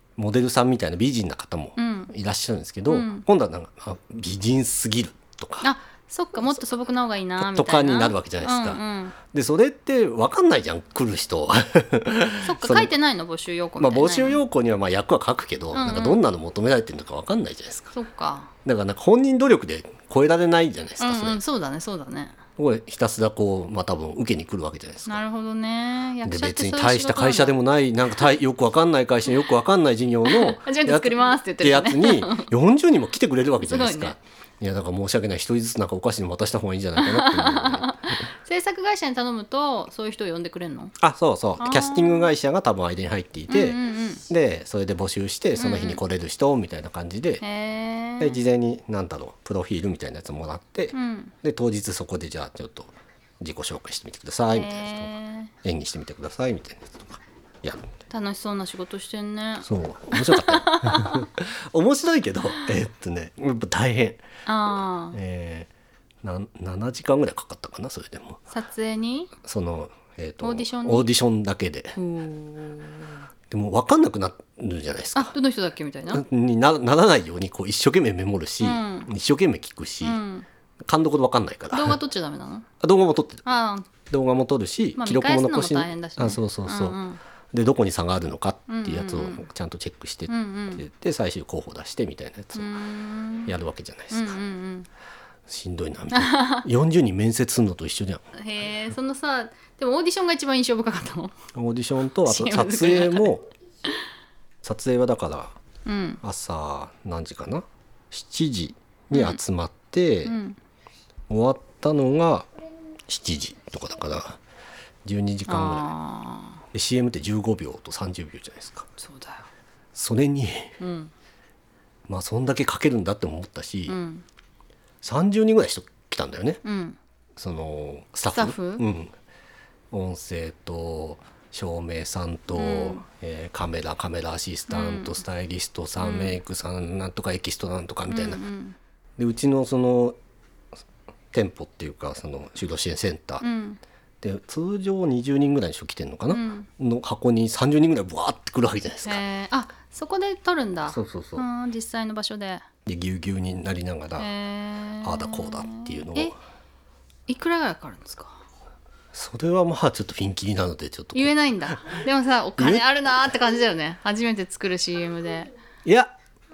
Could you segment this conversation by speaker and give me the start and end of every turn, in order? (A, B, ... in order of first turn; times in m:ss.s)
0:00.2-0:05.7 A
0:01.8-0:02.1 B
0:02.9-0:03.2 B
0:05.6-0:09.2 B
0:07.4-0:08.8 A
0:09.3-0:12.9 A
0:12.4-0:14.4 B
0:13.8-0:17.9 A
0:15.7-0:16.2 B
0:17.9-0:18.5 B
0:18.6-0:21.4 A
0:21.0-0:22.4 B
0:22.6-0:25.2 A
0:25.1-0:27.6 B
0:26.2-0:37.9 A
0:30.2-0:32.5 B
0:33.6-0:34.1 B
0:37.0-0:40.9 B
0:41.0-0:47.4 A
0:41.6-0:42.3 B
0:43.5-0:44.2 B
0:45.6-0:46.0 B
0:47.4-0:48.4 B
0:48.2-0:55.1 A
0:50.9-0:51.3 B
0:54.5-0:55.5 B
0:55.6-0:57.9 A
0:58.1-1:01.3 B
0:59.6-1:04.2 A
1:04.4-1:05.2 B
1:05.1-1:05.7 A
1:06.2-1:08.4 A
1:08.5-1:09.3 B
1:09.4-1:12.0 A
1:10.4-1:11.1 B
1:12.0-1:13.2 B
1:13.5-1:15.3 A
1:15.1-1:16.2 B
1:16.1-1:20.2 A
1:18.6-1:19.1 B
1:20.0-1:20.5 B
1:20.8-1:22.0 A
1:21.7-1:22.7 B
1:22.8-1:23.4 A
1:23.4-1:23.9 B
1:24.1-1:27.0 A
1:25.0-1:27.2 B
1:27.5-1:32.7 A
1:28.7-1:29.4 B
1:30.3-1:30.8 B
1:32.6-1:33.5 B
1:33.4-1:34.4 A
1:34.1-1:34.9 B
1:35.5-1:38.2 A
1:36.1-1:36.6 B
1:38.3-1:41.3 B
1:41.5-1:43.5 A
1:42.2-1:43.3 B
1:44.6-1:45.5 A
1:45.8-1:46.2 B
1:46.2-1:50.3 A
1:49.1-1:49.4 B
1:50.2-1:50.6 B
1:51.3-1:52.5 A
1:53.1-1:54.4 A
1:55.0-1:55.9 A
1:55.5-1:56.6 B
1:56.7-1:58.9 A
1:59.0-1:59.5 B
1:59.9-2:00.8 A
2:00.8-2:01.1 B
2:02.1-2:04.0 A
2:03.9-2:04.2 B
2:05.0-2:06.6 A
2:06.6-2:07.0 B
2:07.4-2:09.1 A
2:08.3-2:08.8 B
2:09.9-2:18.4 A
2:12.5-2:13.0 B
2:14.7-2:15.2 B
2:16.0-2:16.4 B
2:18.1-2:18.8 B
2:19.2-2:20.2 A
2:21.3-2:23.4 A
2:23.4-2:23.8 B
2:24.2-2:29.2 A
2:26.3-2:26.7 B
2:29.0-2:32.6 B
2:30.9-2:31.4 A
2:32.8-2:34.3 A
2:34.2-2:36.3 B
2:35.0-2:36.3 A
2:37.3-2:38.4 B
2:39.1-2:41.3 A
2:41.1-2:45.5 B
2:42.6-2:42.8 A
2:45.8-2:46.1 A